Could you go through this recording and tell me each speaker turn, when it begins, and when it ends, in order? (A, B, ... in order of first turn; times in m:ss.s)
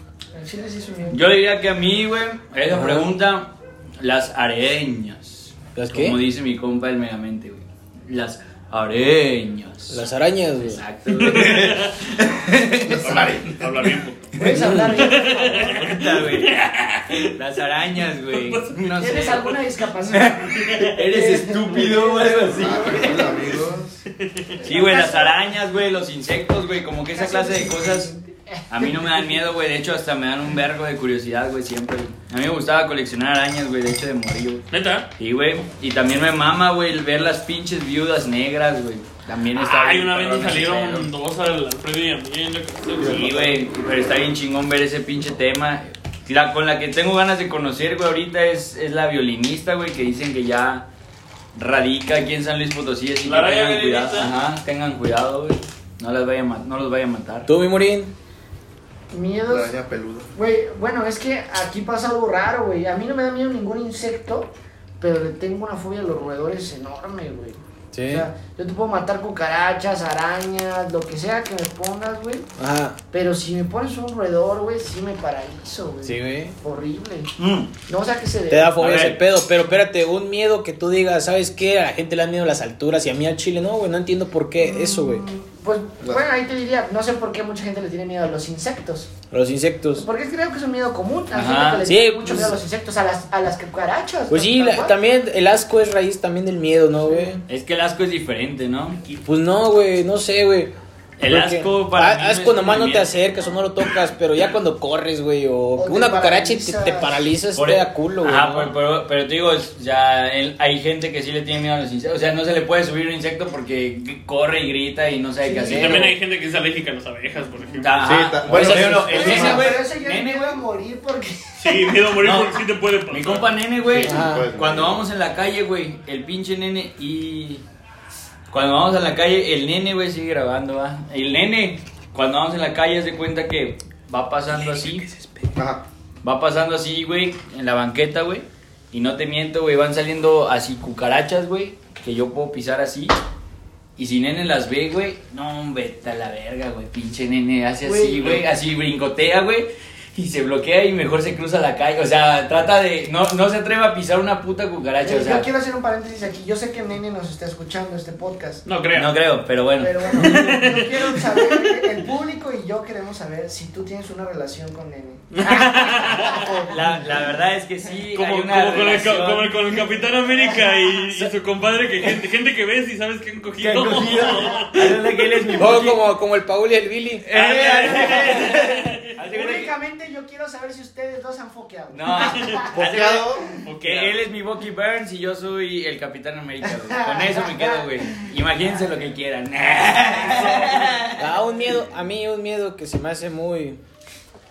0:00.3-0:01.2 A
0:01.1-0:10.0 B
0:02.7-0:03.0 C
0:05.8-0:06.2 C
0:09.9-0:10.8 C
0:10.6-0:13.2 B
0:11.1-0:12.0 D
0:12.9-0:13.9 E
0:13.0-0:17.4 D
0:14.3-0:16.2 A
0:14.3-0:14.6 B
0:14.6-0:14.8 C
0:15.8-0:16.6 B
0:17.1-0:23.4 B
0:18.3-0:18.8 D
0:19.0-0:23.3 A
0:20.6-0:20.9 D
0:22.6-0:24.0 E
0:24.1-0:24.6 D
0:24.6-0:25.4 A
0:24.6-0:28.1 B
0:27.1-0:29.4 A
0:28.7-0:34.6 B
0:34.7-0:35.1 D
0:35.2-0:41.1 B
0:39.6-0:43.5 D
0:43.0-0:50.9 B
0:51.5-0:57.5 B
0:53.2-0:54.3 D
0:57.5-0:58.1 C
0:59.1-0:59.7 A
0:59.5-1:00.3 E
1:00.3-1:12.5 A
1:07.9-1:08.3 C
1:12.6-1:13.0 C
1:13.1-1:17.3 A
1:16.0-1:16.5 C
1:17.4-1:17.7 B
1:17.9-1:19.1 A
1:18.5-1:25.2 C
1:18.8-1:19.2 B
1:24.6-1:29.1 A
1:29.3-1:30.0 C
1:30.0-1:34.9 A
1:31.3-1:31.9 B
1:31.9-1:32.6 C
1:34.3-1:37.4 C
1:37.5-1:39.0 B
1:39.2-1:40.7 C
1:41.2-1:43.2 B
1:41.3-1:48.7 C
1:45.8-1:47.2 A
1:47.6-1:56.1 B
1:55.4-1:56.1 A
1:55.7-1:59.5 D
1:57.8-2:00.6 B
1:58.0-1:59.7 E
1:59.0-2:02.0 A
2:01.6-2:03.5 D
2:02.2-2:07.6 B
2:03.8-2:05.0 E
2:04.0-2:04.5 C
2:08.5-2:15.1 B
2:14.5-2:15.5 C
2:15.6-2:15.8 E
2:16.2-2:23.1 B
2:24.0-2:35.5 B
2:27.8-2:28.4 A
2:35.0-2:38.6 A
2:38.6-2:39.1 D
2:38.9-2:40.4 B
2:39.8-2:47.2 A
2:40.1-2:41.8 D
2:45.3-2:46.6 D
2:46.7-2:49.8 B
2:48.1-2:55.1 D
2:50.4-2:51.0 A
2:53.6-2:56.0 B
2:53.8-2:54.5 A
2:55.6-2:57.2 C
2:57.2-2:59.7 B
2:57.3-2:59.0 D
2:59.3-3:02.7 A
3:01.9-3:11.4 B
3:02.2-3:02.6 D
3:02.7-3:03.6 E
3:03.4-3:03.6 A
3:03.6-3:04.2 D
3:06.6-3:08.3 A
3:10.3-3:11.0 D
3:10.3-3:10.8 A
3:11.2-3:13.8 C